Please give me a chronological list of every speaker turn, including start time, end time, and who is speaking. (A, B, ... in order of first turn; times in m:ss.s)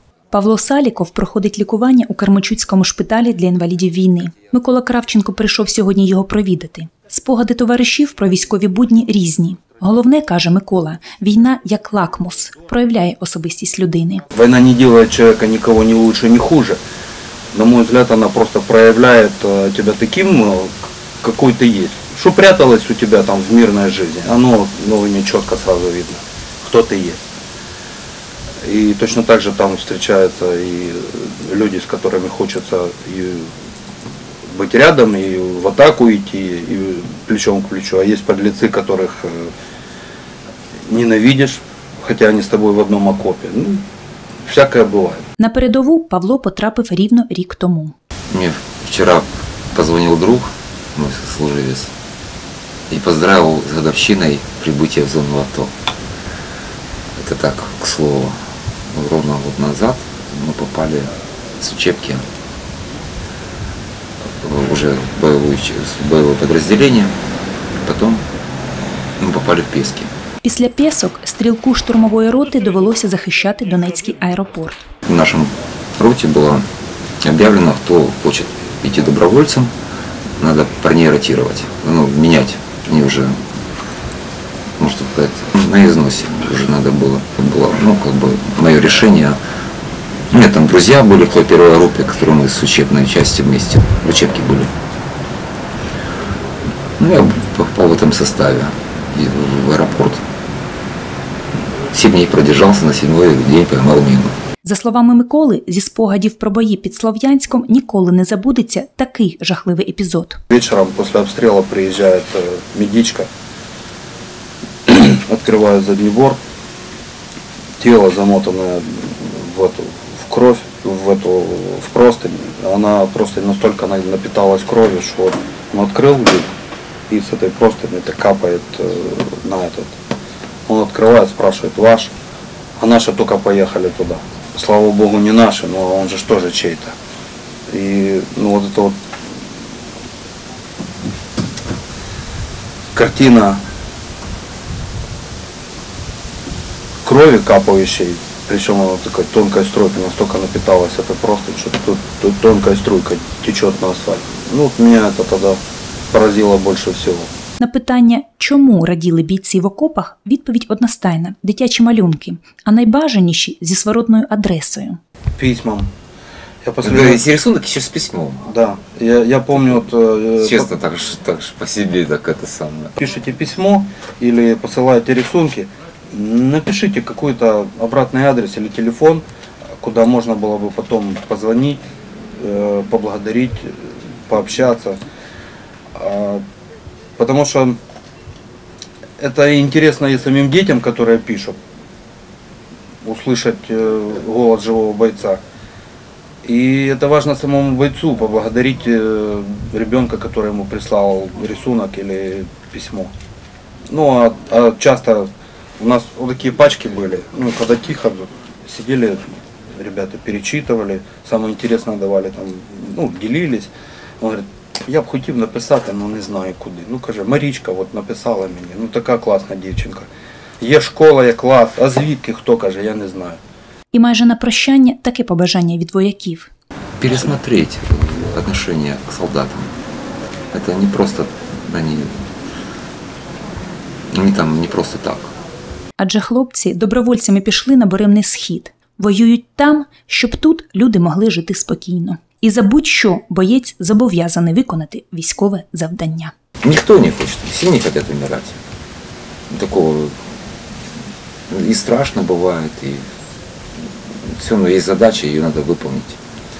0:00.3-0:14.2 A
0:14.3-0:16.8 B
0:17.5-0:20.7 B
0:21.2-0:27.2 B
0:28.6-0:33.5 B
0:34.5-0:39.5 B
0:40.9-0:43.8 B
0:44.4-0:45.2 B
0:45.4-0:47.9 A
0:48.3-0:51.9 C
0:52.9-0:55.7 C
0:57.2-0:58.4 C
0:58.9-1:01.1 C
1:01.6-1:02.2 C
1:04.4-1:07.1 C
1:07.8-1:08.2 C
1:09.2-1:10.1 C
1:10.4-1:14.8 A
1:15.1-1:16.6 C
1:17.2-1:19.7 C
1:20.4-1:23.4 C
1:24.8-1:29.4 C
1:30.3-1:34.7 C
1:37.0-1:40.2 C
1:41.9-1:44.3 C
1:44.6-1:50.4 A
1:50.5-1:53.3 B
1:54.9-1:56.4 B
1:57.8-2:06.5 B
2:07.1-2:09.9 B
2:10.7-2:12.1 B
2:12.8-2:16.9 B
2:17.7-2:18.9 B
2:22.9-2:23.6 B
2:27.0-2:35.6 B
2:36.1-2:37.3 B
2:37.6-2:45.0 A
2:45.4-2:45.9 B
2:46.6-2:47.2 B
2:47.0-2:48.4 C
2:48.4-2:50.7 B
2:50.4-2:52.9 C
2:53.0-2:59.2 B
2:59.8-3:01.8 B
3:02.4-3:05.0 B
3:05.9-3:06.4 B
3:07.2-3:07.8 B
3:09.2-3:11.6 B
3:13.0-3:15.4 B
3:16.4-3:23.1 B
3:23.9-3:25.3 B
3:25.8-3:40.1 B
3:40.6-3:43.4 B
3:43.9-3:46.5 A
3:47.0-3:49.7 C
3:50.5-3:52.1 C
3:54.1-3:55.3 C
3:56.0-4:06.3 A
4:06.6-4:08.6 C
4:09.5-4:10.1 C
4:11.5-4:13.0 C
4:14.4-4:16.2 C